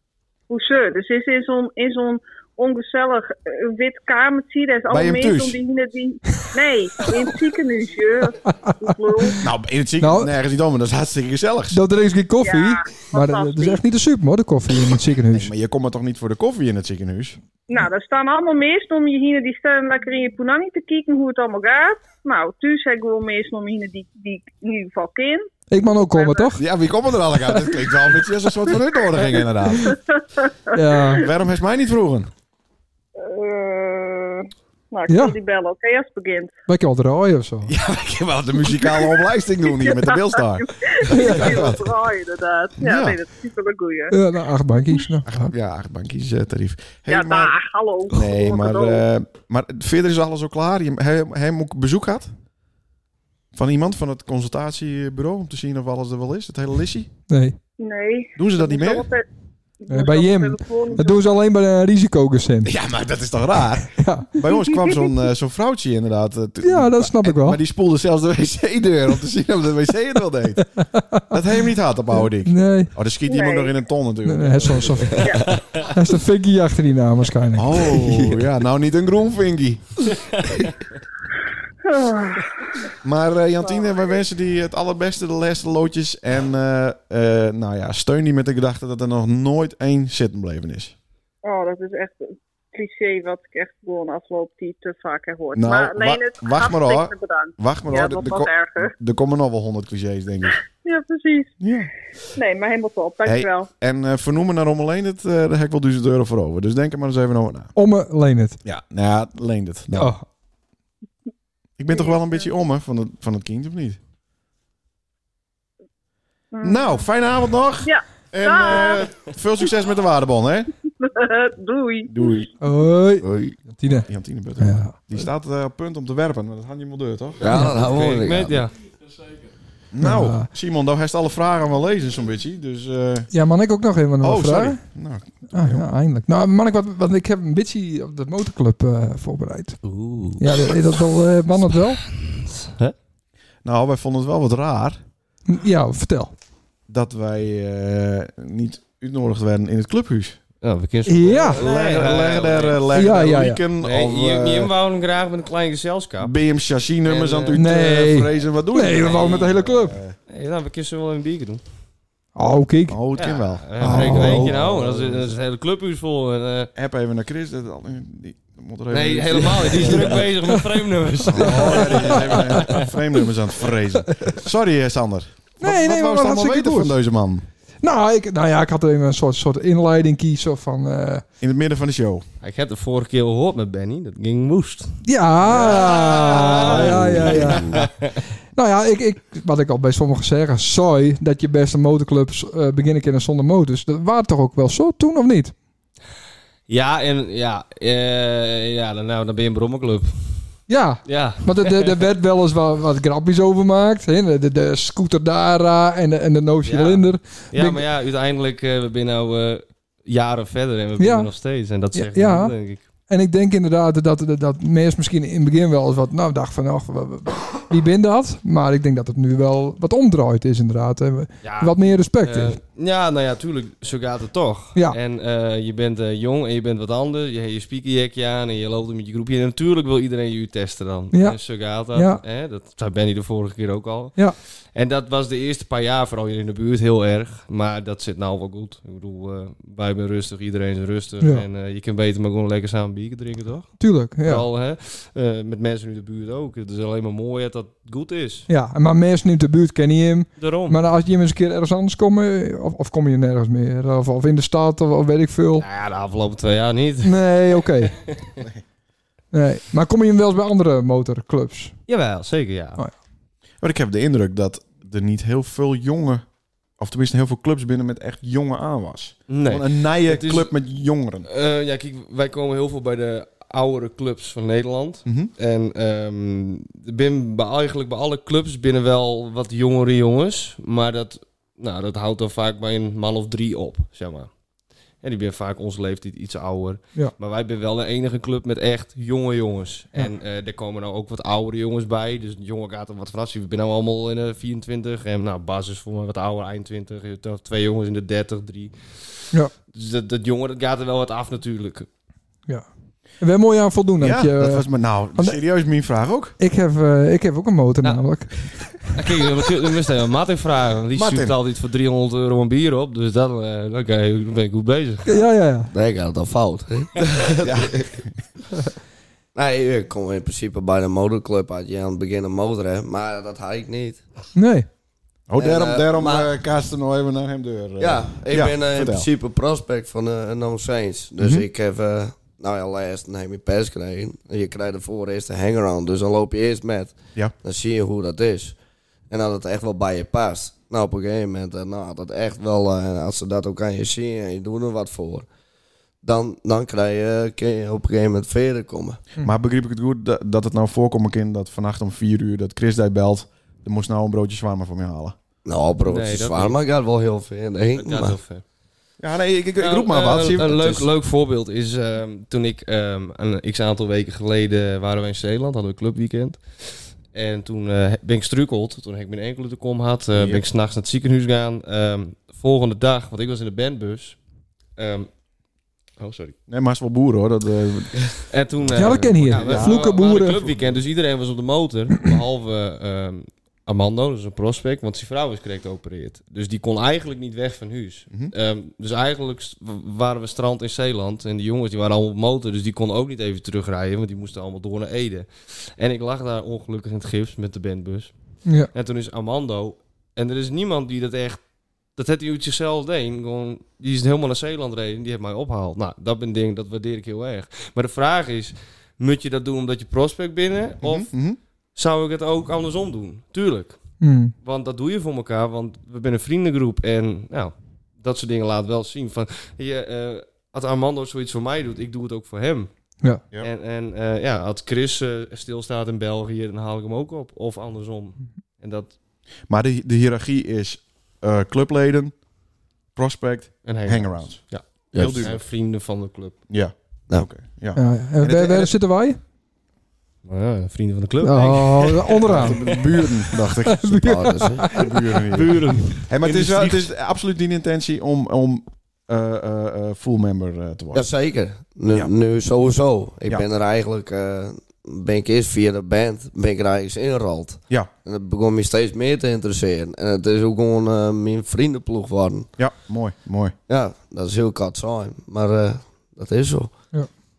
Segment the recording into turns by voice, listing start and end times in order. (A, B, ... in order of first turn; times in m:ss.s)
0:00.5-0:09.4 A
0:04.9-0:05.6 B
0:09.4-0:11.8 B
0:10.0-0:10.3 C
0:11.7-0:15.5 C
0:12.4-0:13.8 A
0:15.3-0:17.4 B
0:17.7-0:26.5 A
0:25.7-0:26.6 C
0:26.6-0:30.0 B
0:29.8-0:30.8 A
0:30.7-0:31.3 C
0:31.2-0:32.3 B
0:33.2-0:36.5 A
0:35.1-0:35.4 C
0:36.7-0:37.7 C
0:37.6-0:41.9 B
0:38.7-0:44.1 A
0:42.8-0:43.2 B
0:44.1-0:45.5 C
0:45.2-0:47.5 B
0:47.1-0:49.0 A
0:48.1-0:52.3 B
0:53.5-0:57.1 B
0:57.3-0:57.6 C
0:57.8-0:59.2 A
0:58.4-0:59.1 B
0:59.8-1:01.3 A
0:59.9-1:02.7 C
1:02.6-1:10.6 B
1:04.0-1:04.3 C
1:06.6-1:07.6 C
1:10.9-1:11.2 C
1:11.3-1:15.3 B
1:12.4-1:12.9 C
1:13.3-1:13.7 A
1:14.2-1:18.0 C
1:17.6-1:20.1 B
1:21.8-1:22.8 A
1:23.0-1:30.9 B
1:23.6-1:24.2 A
1:31.4-1:38.9 A
1:35.5-1:40.6 B
1:40.8-1:41.5 A
1:41.6-1:41.9 B
1:42.3-1:43.7 A
1:43.2-1:47.7 B
1:47.8-1:48.6 C
1:48.6-1:50.1 B
1:49.9-1:50.2 C
1:51.8-1:54.0 B
1:51.9-1:52.4 A
1:56.5-1:57.0 A
1:56.6-2:00.7 B
1:57.8-1:59.0 A
2:01.0-2:02.3 A
2:02.1-2:02.5 B
2:02.6-2:04.1 C
2:03.2-2:03.6 D
2:03.9-2:07.7 B
2:04.6-2:05.0 C
2:07.4-2:08.6 D
2:07.6-2:08.7 E
2:09.9-2:13.3 B
2:10.0-2:10.5 C
2:13.3-2:14.8 C
2:14.2-2:15.8 B
2:15.5-2:19.8 C
2:19.8-2:20.8 E
2:20.4-2:22.0 C
2:22.2-2:22.9 E
2:23.6-2:25.0 B
2:25.5-2:26.3 C
2:26.9-2:30.4 B
2:30.6-2:32.8 E
2:31.1-2:31.6 C
2:31.5-2:34.7 B
2:32.9-2:33.6 C
2:33.8-2:36.3 E
2:36.2-2:40.2 B
2:37.0-2:37.6 E
2:37.5-2:40.0 C
2:39.0-2:39.5 E
2:40.3-2:41.6 E
2:42.4-2:43.0 C
2:42.9-2:45.3 B
2:43.2-2:46.7 E
2:43.8-2:44.5 C
2:46.7-2:50.3 B
2:48.9-2:52.9 E
2:51.3-2:57.4 B
2:51.4-2:52.8 C
2:55.6-2:57.0 C
2:57.8-3:01.2 C
3:01.4-3:02.2 B
3:02.4-3:08.1 E
3:05.0-3:07.7 C
3:05.5-3:07.8 B
3:08.5-3:15.5 C
3:16.7-3:20.5 E
3:20.7-3:27.8 C
3:21.0-3:22.0 E
3:26.6-3:32.8 E
3:31.0-3:31.3 C
3:31.9-3:32.6 C
3:33.1-3:42.6 C
3:41.4-4:08.5 E
3:51.1-3:51.4 C
3:51.9-3:52.2 C
4:03.8-4:04.4 C
4:08.5-4:15.6 C
4:10.4-4:10.8 E
4:15.6-4:17.3 E
4:17.0-4:17.9 C
4:19.3-4:21.7 C
4:21.9-4:22.8 E
4:23.6-4:26.2 B
4:26.8-4:31.3 B
4:29.3-4:30.5 E
4:31.2-4:44.3 E
4:45.0-4:58.9 E
4:59.7-5:01.9 E
5:03.2-5:05.4 C
5:04.0-5:06.4 B
5:06.4-5:08.3 C
5:08.9-5:15.2 E
5:10.9-5:11.4 B
5:15.1-5:15.7 C
5:15.7-5:17.8 D
5:17.4-5:18.0 B
5:19.3-5:24.0 D
5:24.3-5:24.7 C
5:25.3-5:29.1 B
5:25.4-5:26.3 D
5:27.8-5:38.6 D
5:31.2-5:31.5 B
5:39.1-5:45.3 D
5:46.0-5:49.0 D
5:49.2-5:55.2 B
5:55.4-5:58.2 D
5:55.8-5:56.6 E
5:57.7-5:58.4 E
5:59.0-6:00.8 B
5:59.6-6:14.2 E
6:10.1-6:10.4 B
6:14.8-6:15.1 E
6:16.0-6:16.4 E
6:16.5-6:18.0 B
6:18.2-6:38.1 E
6:18.7-6:20.8 B
6:18.7-6:20.4 C
6:38.7-6:41.4 E
6:42.0-6:51.1 E
6:50.8-6:51.4 B
6:51.8-6:53.8 E
6:54.0-6:54.3 C
6:54.4-7:02.7 E
7:03.4-7:08.9 E
7:09.5-7:12.1 B
7:12.9-7:14.4 B
7:13.6-7:16.4 E
7:14.9-7:15.3 D
7:14.9-7:15.4 B
7:16.5-7:18.7 B
7:17.8-7:19.2 C
7:20.2-7:22.7 E
7:21.2-7:24.9 C
7:22.2-7:31.1 B
7:24.0-7:24.7 D
7:25.3-7:26.9 E
7:30.9-7:42.5 D
7:42.6-7:43.5 B
7:43.7-7:46.7 D